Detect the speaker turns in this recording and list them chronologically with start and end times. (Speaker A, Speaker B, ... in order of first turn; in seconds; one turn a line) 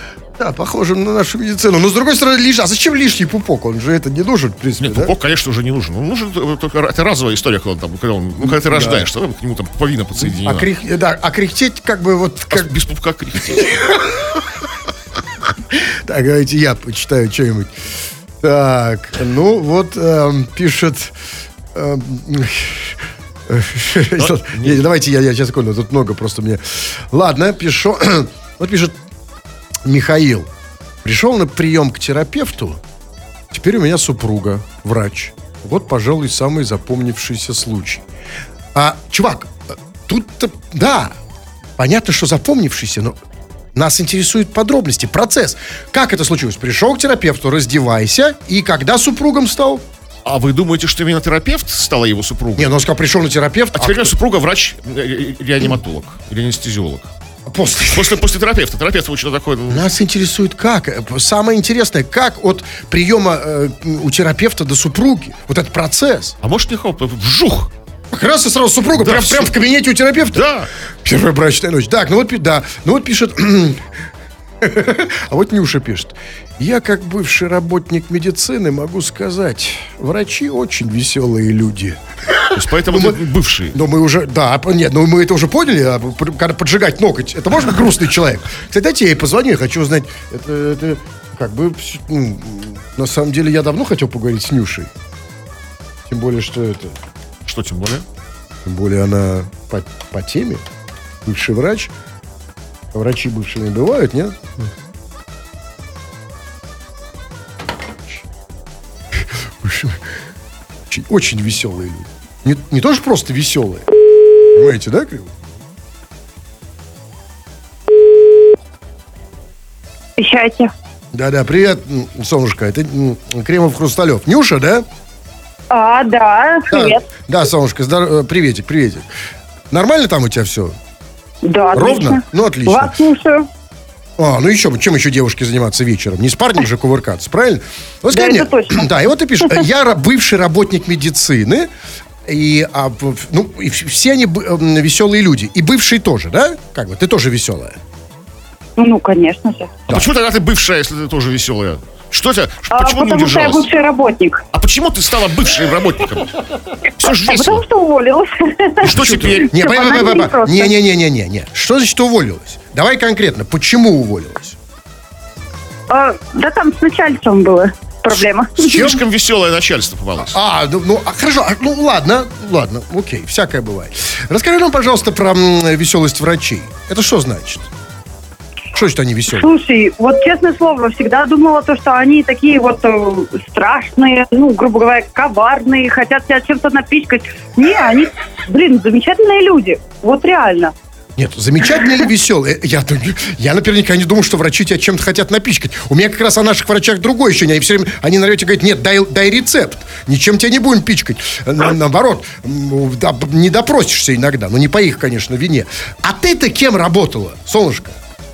Speaker A: 0.4-5.1
Speaker B: 4.8-10.7
Speaker A: 8.4-9.1
Speaker A: 10.2-12.7
Speaker B: 12.5-13.8
Speaker A: 13.5-14.4
Speaker A: 15.7-17.7
Speaker A: 18.4-21.1
Speaker A: 21.7-28.9
Speaker B: 24.2-24.8
Speaker A: 29.9-30.5
Speaker A: 31.0-32.8
Speaker A: 33.5-38.0
Speaker A: 38.7-41.2
Speaker A: 41.8-43.1
Speaker A: 43.7-49.8
Speaker B: 50.2-52.8
Speaker A: 52.6-54.1
Speaker B: 53.7-57.1
Speaker A: 57.5-58.2
Speaker B: 57.9-59.9
Speaker A: 59.7-66.3
Speaker B: 66.4-67.7
Speaker A: 68.1-70.5
Speaker B: 69.0-69.5
Speaker B: 70.3-70.7
Speaker A: 71.0-73.8
Speaker A: 74.6-83.2
Speaker B: 82.5-83.8
Speaker A: 83.7-94.9
Speaker A: 96.1-97.0
Speaker B: 97.5-98.0
Speaker A: 98.7-100.6
Speaker A: 101.2-101.9
Speaker A: 102.9-104.7
Speaker A: 109.1-110.0
Speaker A: 110.9-113.9
Speaker A: 114.5-115.4
Speaker C: 120.2-120.7
Speaker A: 121.1-124.8
Speaker C: 125.7-127.0
Speaker A: 126.7-129.1
Speaker A: 129.7-130.7
Speaker C: 131.4-133.5
Speaker A: 131.7-132.9
Speaker A: 134.2-141.7
Speaker C: 138.1-138.8
Speaker A: 142.3-147.8
Speaker C: 148.8-149.8
Speaker B: 149.9-153.7
Speaker C: 152.7-154.4
Speaker B: 154.5-157.6
Speaker C: 157.1-160.7
Speaker B: 158.8-159.6
Speaker A: 159.0-164.6
Speaker C: 165.9-168.9
Speaker B: 168.6-170.4
Speaker A: 168.7-169.0
Speaker A: 170.3-177.7
Speaker A: 178.7-179.5
Speaker C: 179.3-190.7
Speaker A: 191.2-208.0